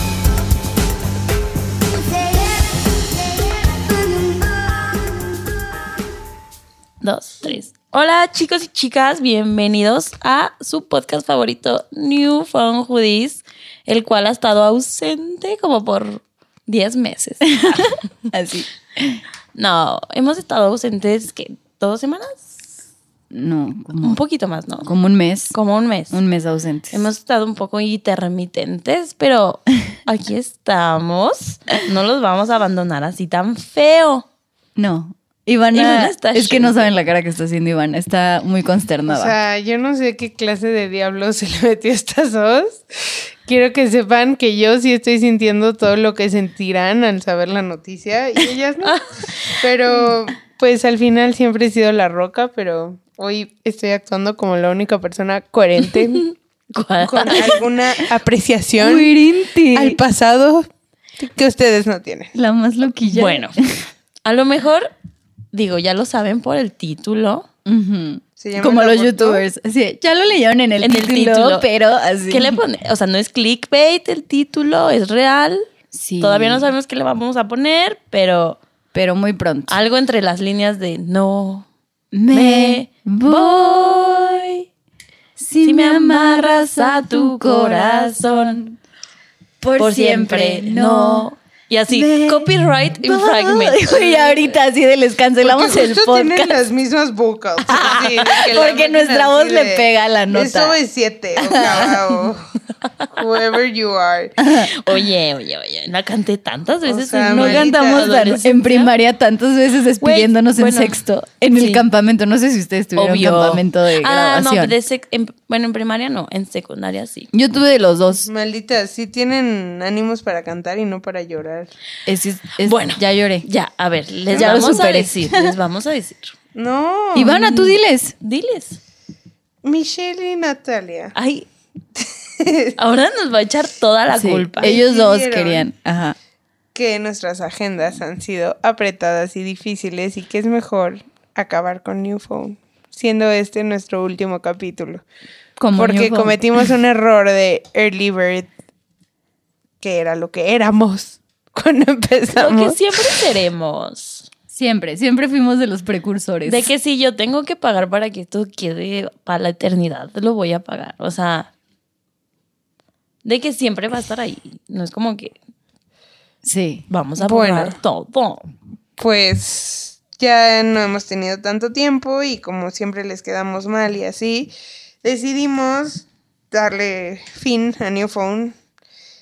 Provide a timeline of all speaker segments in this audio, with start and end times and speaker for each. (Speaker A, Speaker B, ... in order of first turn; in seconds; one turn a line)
Speaker A: 7.0-17.9
Speaker B: 17.6-19.2
Speaker A: 19.5-22.6
Speaker B: 23.3-24.2
Speaker A: 24.0-24.9
Speaker B: 24.9-25.6
Speaker A: 25.5-26.2
Speaker B: 26.1-27.0
Speaker A: 26.9-34.2
Speaker B: 34.8-39.3
Speaker A: 35.7-36.9
Speaker C: 39.1-49.0
Speaker A: 48.8-49.6
Speaker C: 49.5-56.2
Speaker A: 55.9-57.6
Speaker C: 57.0-60.7
Speaker B: 58.8-60.0
Speaker C: 61.2-62.3
Speaker B: 62.3-63.8
Speaker A: 63.0-63.5
Speaker A: 64.2-64.9
Speaker A: 65.5-67.5
Speaker B: 67.7-72.5
Speaker C: 68.4-69.4
Speaker A: 70.8-71.6
Speaker A: 72.3-75.7
Speaker B: 75.9-76.7
Speaker A: 76.2-78.6
Speaker B: 78.9-79.8
Speaker A: 79.7-81.7
Speaker B: 82.1-84.5
Speaker A: 82.3-84.5
Speaker B: 85.4-88.8
Speaker A: 85.6-88.6
Speaker B: 89.6-91.3
Speaker A: 89.8-94.5
Speaker B: 91.9-96.5
Speaker C: 95.4-102.5
Speaker B: 97.7-100.8
Speaker B: 101.4-102.2
Speaker C: 103.1-104.4
Speaker B: 104.4-104.7
Speaker A: 104.6-108.9
Speaker C: 106.8-108.2
Speaker B: 107.3-114.7
Speaker A: 110.0-111.0
Speaker A: 111.5-111.8
Speaker A: 113.0-117.3
Speaker B: 117.3-118.3
Speaker C: 118.2-121.7
Speaker B: 122.0-123.5
Speaker A: 122.6-126.3
Speaker C: 124.3-124.8
Speaker B: 124.3-125.5
Speaker C: 126.5-127.8
Speaker B: 127.1-128.1
Speaker A: 128.2-128.8
Speaker C: 129.6-131.1
Speaker A: 131.1-131.5
Speaker C: 132.0-132.7
Speaker A: 132.8-134.7
Speaker B: 134.1-136.2
Speaker C: 134.6-135.7
Speaker C: 136.7-145.0
Speaker B: 145.6-146.4
Speaker C: 145.7-148.5
Speaker C: 149.8-152.8
Speaker A: 152.3-154.3
Speaker B: 154.5-156.7
Speaker A: 156.4-161.5
Speaker A: 163.2-165.3
Speaker B: 166.4-166.8
Speaker A: 166.9-168.4
Speaker C: 167.2-167.8
Speaker C: 169.0-178.5